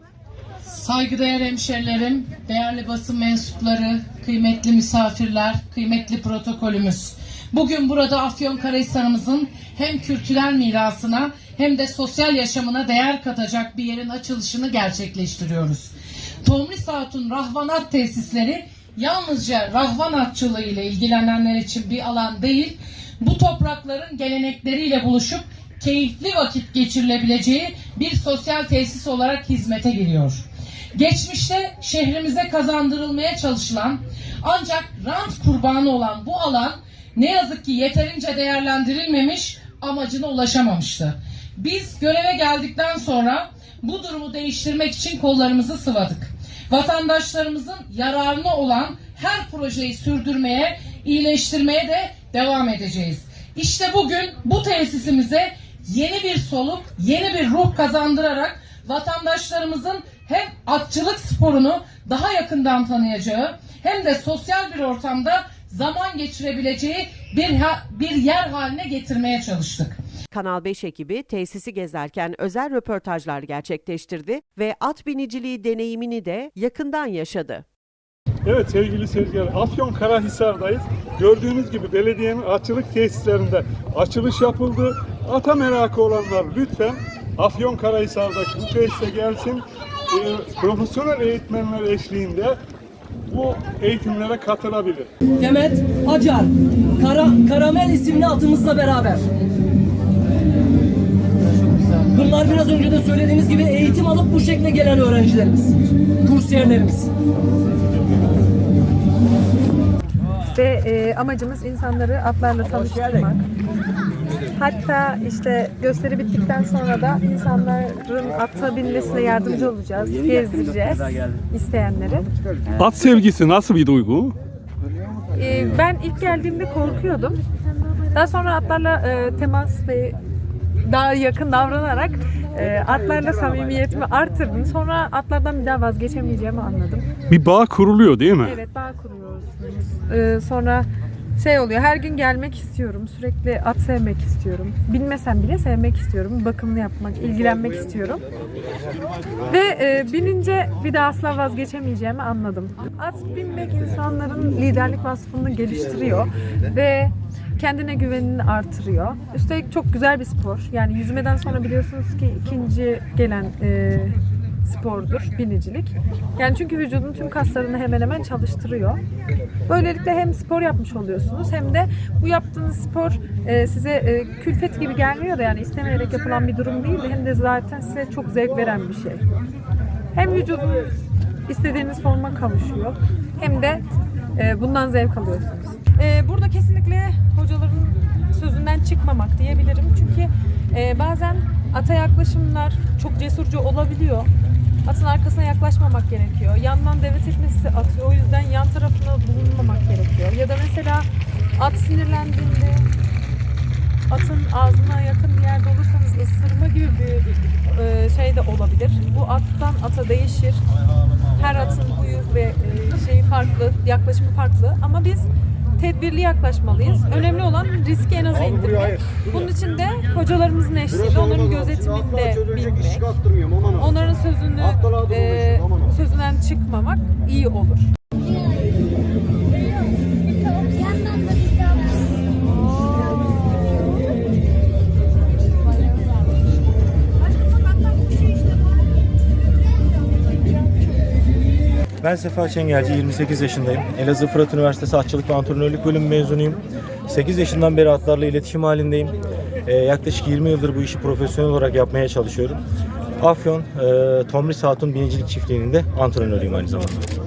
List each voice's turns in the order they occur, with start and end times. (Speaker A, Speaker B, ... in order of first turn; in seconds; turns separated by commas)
Speaker A: 0.6-70.0, Speaker B: 70.3-77.6, Speaker C: 78.5-92.6, Speaker C: 93.3-95.1, Speaker D: 95.4-99.3, Speaker D: 102.1-107.1, Speaker E: 110.5-113.5, Speaker E: 114.5-122.3, Speaker C: 122.8-124.3, Speaker E: 125.3-127.4, Speaker E: 128.1-130.2, Speaker E: 130.8-137.1, Speaker C: 137.3-138.6, Speaker E: 138.4-148.2, Speaker E: 149.5-169.0, Speaker E: 169.7-179.2, Speaker E: 180.1-183.8, Speaker E: 184.3-194.3, Speaker E: 194.8-202.9, Speaker E: 204.1-210.6, Speaker E: 211.3-227.9, Speaker E: 232.6-233.3, Speaker F: 242.0-252.6, Speaker F: 253.2-257.1